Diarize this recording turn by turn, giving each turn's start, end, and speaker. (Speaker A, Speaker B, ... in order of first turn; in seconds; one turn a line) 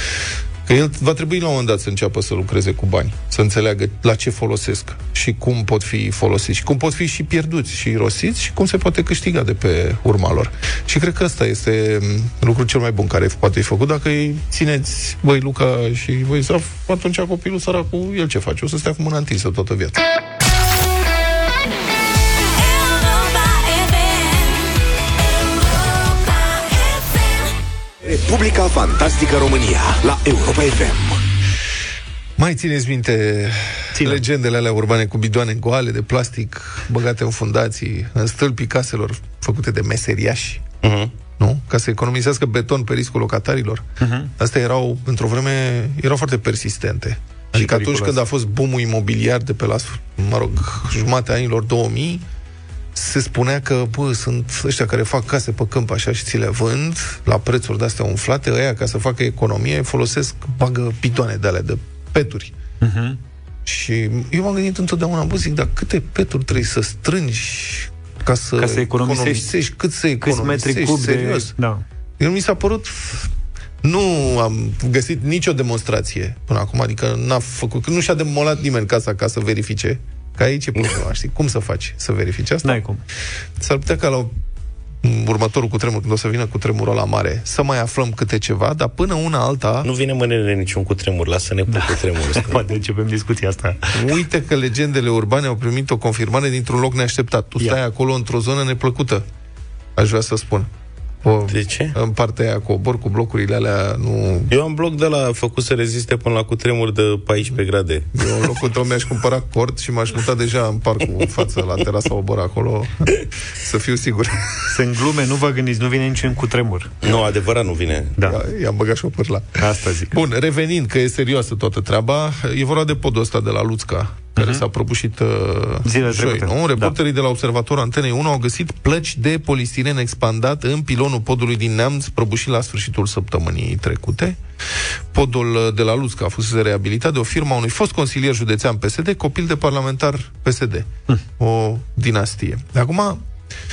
Speaker A: 0.7-20.0
Speaker B: 22.4-24.8
Speaker B: 25.4-27.5
Speaker C: 28.0-31.2
Speaker A: 32.4-40.7
Speaker D: 34.0-34.2
Speaker E: 40.8-41.1
Speaker A: 41.4-43.9
Speaker D: 44.0-44.3
Speaker A: 44.4-52.2
Speaker D: 47.5-48.2
Speaker A: 52.9-62.5
Speaker D: 62.8-63.2
Speaker A: 63.7-71.5
Speaker D: 68.6-69.5
Speaker D: 70.2-71.8
Speaker A: 72.2-73.3
Speaker A: 73.8-82.8
Speaker D: 82.6-83.0
Speaker A: 83.6-84.3
Speaker A: 85.0-89.9
Speaker E: 89.8-92.7
Speaker D: 91.7-93.9
Speaker A: 94.0-99.2
Speaker A: 100.0-100.7
Speaker A: 101.2-104.5
Speaker E: 101.5-102.0
Speaker E: 104.5-108.1
Speaker A: 108.1-114.5
Speaker D: 114.7-117.0
Speaker E: 117.0-118.2
Speaker A: 118.2-134.4
Speaker D: 119.6-120.2
Speaker D: 124.4-124.6
Speaker D: 125.8-127.0
Speaker A: 135.1-143.2